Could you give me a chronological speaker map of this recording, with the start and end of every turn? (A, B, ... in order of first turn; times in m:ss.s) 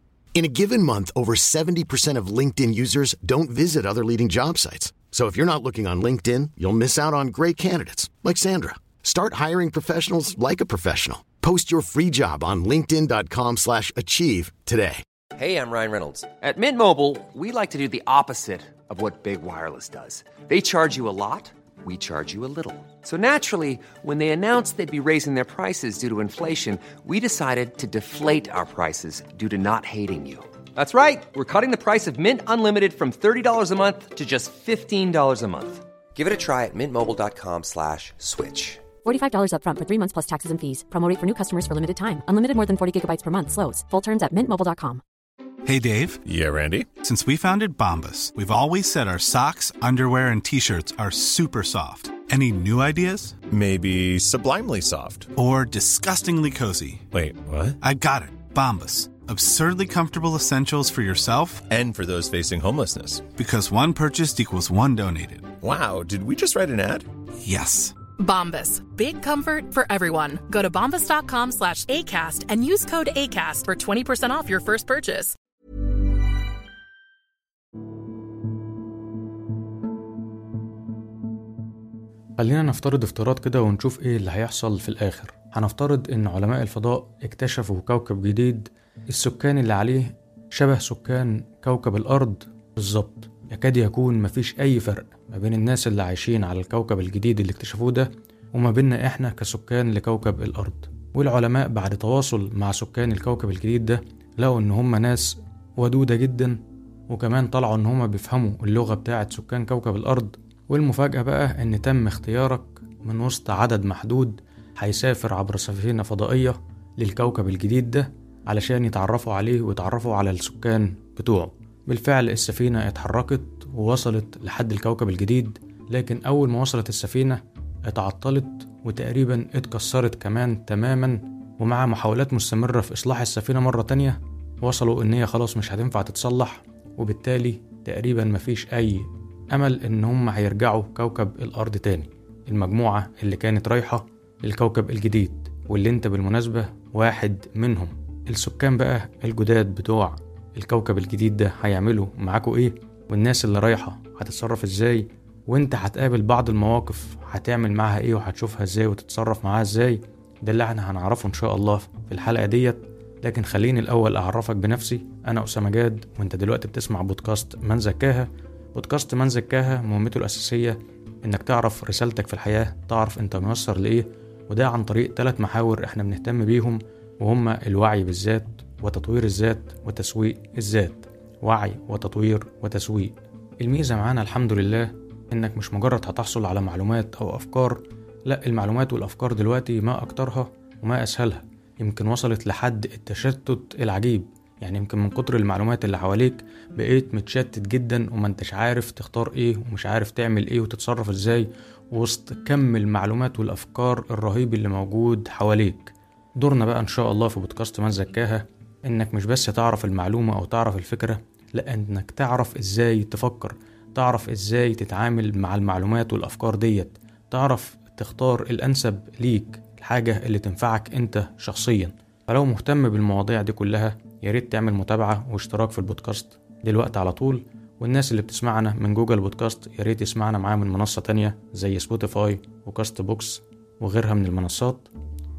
0:00.3-0:15.0 A
0:15.4-0:38.9 B
0:39.0-0:45.0 C
0:45.6-0:46.2 D
0:46.2-0:46.9 E
0:47.0-0:53.3 D
0:53.5-0:55.3 E
0:55.4-0:57.0 D
0:57.1-0:57.8 E
0:57.8-1:01.7 D
1:01.7-1:03.3 E
1:03.3-1:05.5 D
1:05.6-1:07.1 E
1:07.4-1:08.0 D
1:08.2-1:15.3 F
1:22.4-1:46.6 G
1:47.1-3:54.9 G